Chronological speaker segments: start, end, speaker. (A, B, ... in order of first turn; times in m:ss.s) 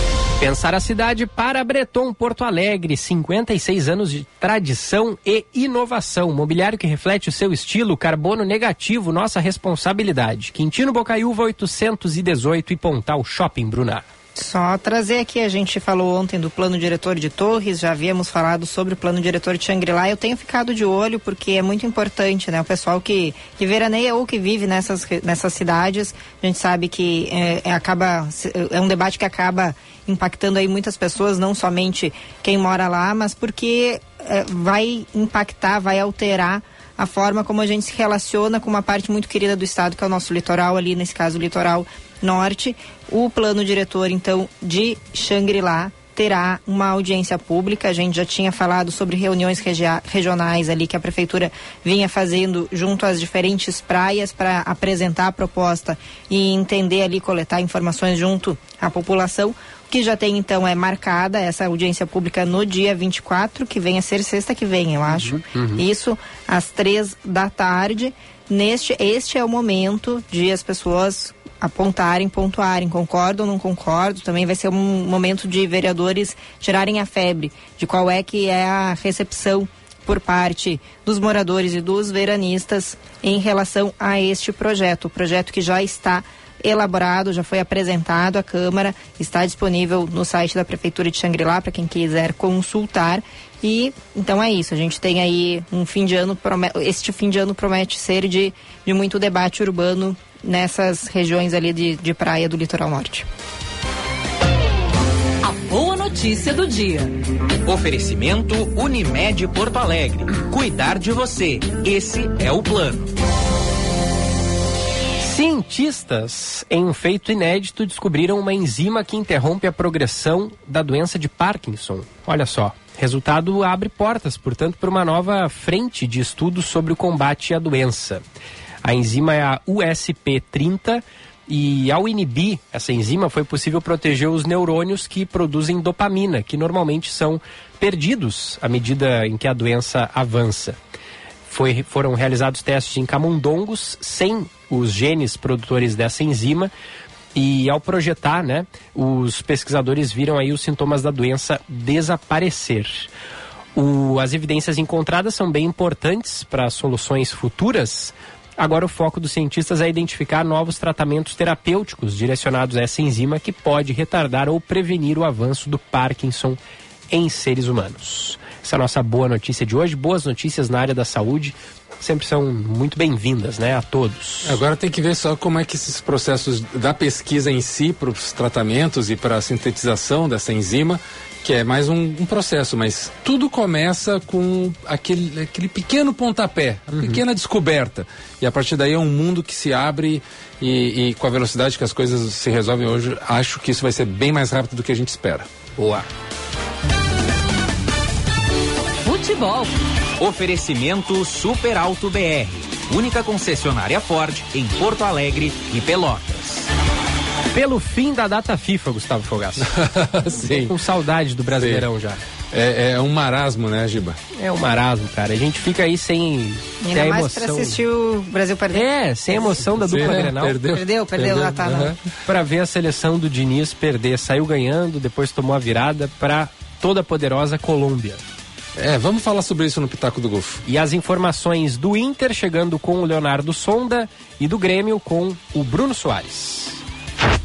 0:00.4-0:14.0 A
0:14.3-1:43.3 B
1:05.1-1:05.8 A
1:45.4-1:47.1 C
1:47.6-1:53.1 D
1:55.2-2:08.2 A
2:08.8-2:20.8 A
2:21.5-2:26.7 A
2:27.3-2:33.1 A
2:33.7-2:46.6 A
2:47.1-2:54.6 A
2:54.4-3:15.5 E
3:06.9-3:07.2 A
3:15.8-3:16.0 A
3:19.0-3:19.8 C
3:20.2-3:26.7 D
3:27.5-3:29.7 A
3:29.6-3:30.8 E
3:30.4-3:32.2 A
3:31.5-3:31.8 E
3:32.5-3:34.2 E
3:34.4-3:37.8 A
3:36.8-3:38.8 B
3:38.7-3:40.6 A
3:39.8-3:42.0 E
3:40.7-3:41.9 B
3:42.2-3:48.2 A
3:48.8-3:50.6 E
3:50.6-3:56.8 A